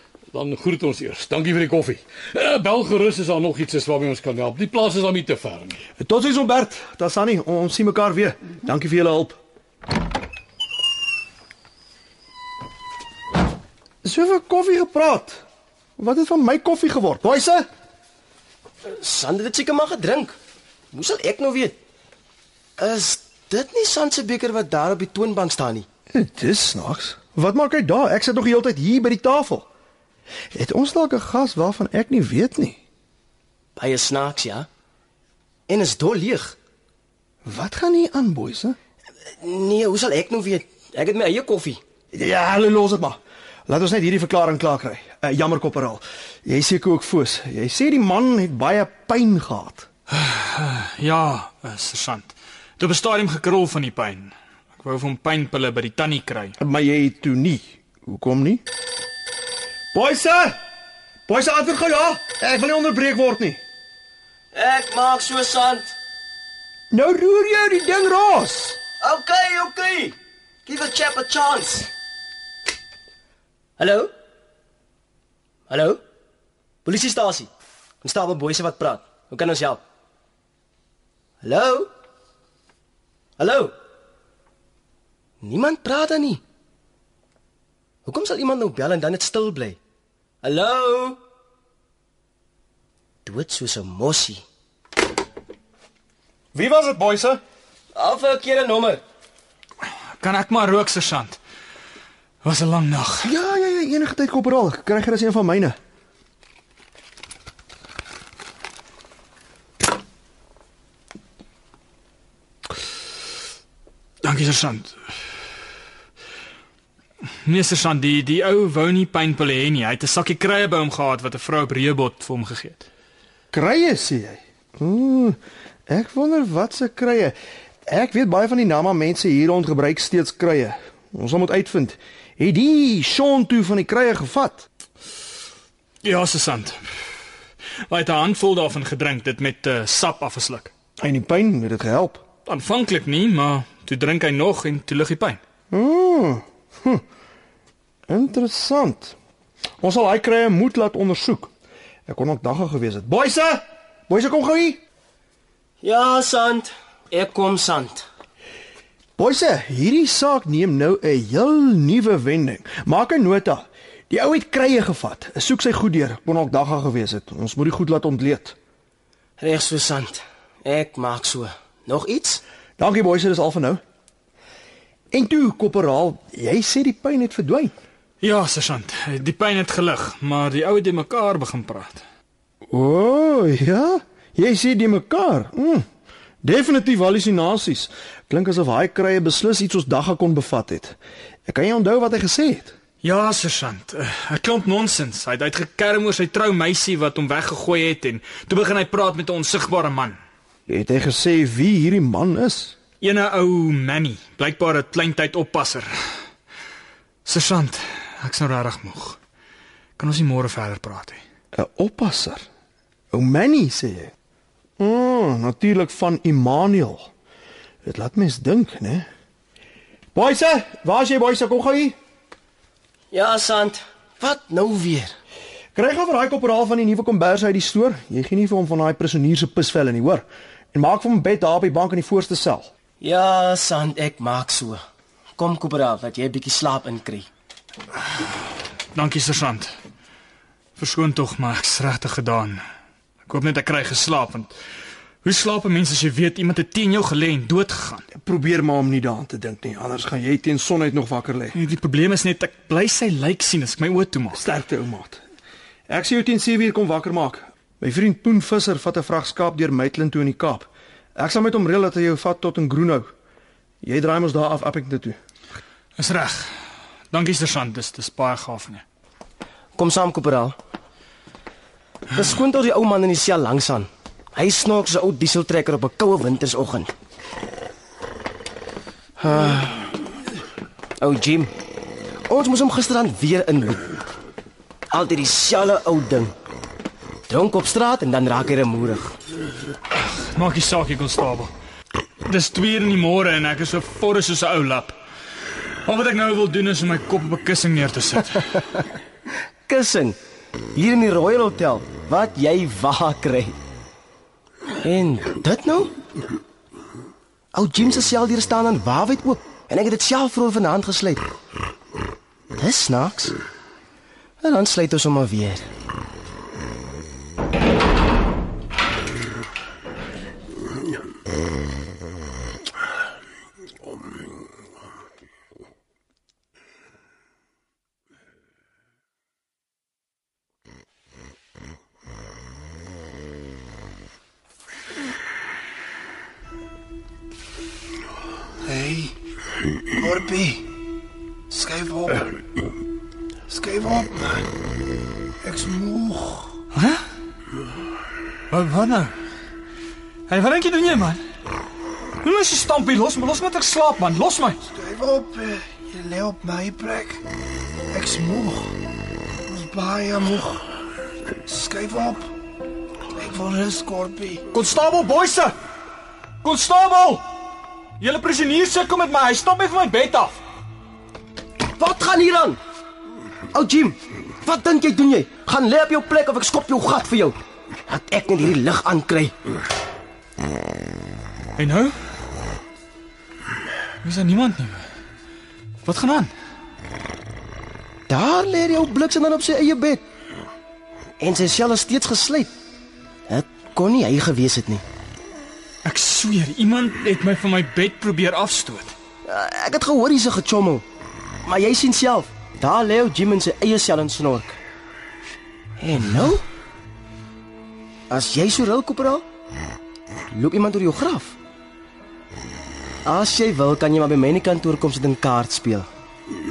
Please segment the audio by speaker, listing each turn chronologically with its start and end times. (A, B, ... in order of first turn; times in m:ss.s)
0:00.3-0:05.8 A
0:06.0-0:09.4 B
0:14.0-0:15.4 B
0:16.0-0:17.7 B
0:18.9-0:20.4 C
0:20.9-0:21.8 C
0:22.8-0:25.9 C
0:26.1-0:29.7 B
0:30.5-0:32.8 B
0:33.8-0:34.7 C
0:35.7-0:36.6 C
0:37.4-0:38.8 B
0:39.3-0:41.8 C
0:42.1-0:49.9 B
0:50.1-0:56.6 D
0:56.6-0:58.6 B
0:59.9-1:00.6 B
1:01.3-1:03.6 B
1:04.5-1:06.0 C
1:06.9-1:08.8 B
1:09.0-1:10.1 C
1:10.7-1:11.9 C
1:13.8-1:14.1 C
1:15.7-1:16.0 C
1:16.8-1:17.5 C
1:18.0-1:19.8 C
1:21.4-1:21.9 C
1:23.4-1:23.7 C
1:25.4-1:26.4 C
1:28.1-1:29.8 C
1:30.4-1:31.2 C
1:33.3-1:34.4 C
1:36.5-1:37.4 B
1:38.0-1:39.0 C
1:40.2-1:41.4 D
1:42.4-1:43.3 D
1:43.2-1:45.8 B
1:54.2-1:55.0 D
1:57.4-2:02.9 D
2:03.5-2:07.4 B
2:07.9-2:14.7 B
2:16.0-2:16.8 D
2:17.9-2:20.7 D
2:21.0-2:22.2 B
2:22.5-2:25.4 D
2:25.7-2:27.0 B
2:28.1-2:29.2 B
2:29.8-2:31.5 B
2:32.1-2:34.8 B
2:35.8-2:38.1 C
2:39.2-2:48.6 B
2:49.4-2:52.4 C
2:52.8-2:53.8 B
2:55.1-2:57.7 B
2:58.2-3:02.0 D
3:02.7-3:05.9 B
3:06.4-3:12.7 B
3:13.0-3:20.2 D
3:20.7-3:22.8 B
3:23.0-3:25.9 D
3:27.2-3:29.2 D
3:30.0-3:31.2 D
3:31.5-3:32.5 B
3:33.1-3:34.1 B
3:34.8-3:37.1 B
3:37.8-3:39.1 B
3:40.1-3:42.0 B
3:43.1-3:45.1 C
3:45.8-3:52.7 B
3:53.0-3:54.8 C
3:55.4-3:57.3 C
3:59.0-3:59.7 D
4:00.8-4:02.6 D
4:03.3-4:04.5 D
4:05.2-4:08.1 D
4:08.1-4:11.6 B
4:11.5-4:14.4 D
4:14.3-4:15.2 B
4:15.9-4:23.1 B
4:23.8-4:25.2 B
4:26.0-4:26.5 D
4:27.1-4:28.8 D
4:29.8-4:30.6 C
4:32.1-4:36.9 C
4:39.2-4:40.0 C
4:41.0-4:41.5 C
4:42.3-4:44.0 C
4:44.9-4:46.3 C
4:47.3-4:49.1 C
4:50.3-4:51.5 D
4:52.2-4:55.0 D
4:55.9-4:58.6 D
4:59.7-5:00.2 C
5:00.8-5:03.6 C
5:04.8-5:05.9 C
5:07.5-5:11.3 C
5:12.5-5:13.3 C
5:14.4-5:15.7 C
5:38.6-5:39.1 E
5:40.0-5:40.6 E
5:41.5-5:42.3 E
5:43.5-5:44.4 E
5:45.4-5:46.5 E
5:46.7-5:47.0 D
5:48.5-5:49.1 D
5:50.3-5:51.2 D
5:52.2-5:54.6 D
5:54.7-5:57.2 E
5:57.9-5:58.7 E
5:59.5-6:00.6 E
6:01.5-6:02.3 E
6:03.1-6:04.5 E
6:04.5-6:05.6 D
6:06.4-6:07.2 D
6:08.0-6:10.4 D
6:11.8-6:12.6 C
6:13.5-6:17.4 C
6:17.9-6:19.3 C
6:21.6-6:22.0 D
6:24.0-6:24.8 D
6:25.8-6:26.3 D
6:28.1-6:30.0 C
6:31.2-6:32.5 C
6:33.3-6:34.8 C
6:35.8-6:38.9 D
6:39.3-6:40.8 C
6:41.5-6:44.6 C
6:45.8-6:46.4 C
6:48.1-6:49.2 C
6:50.3-6:51.4 C
6:53.1-6:55.9 C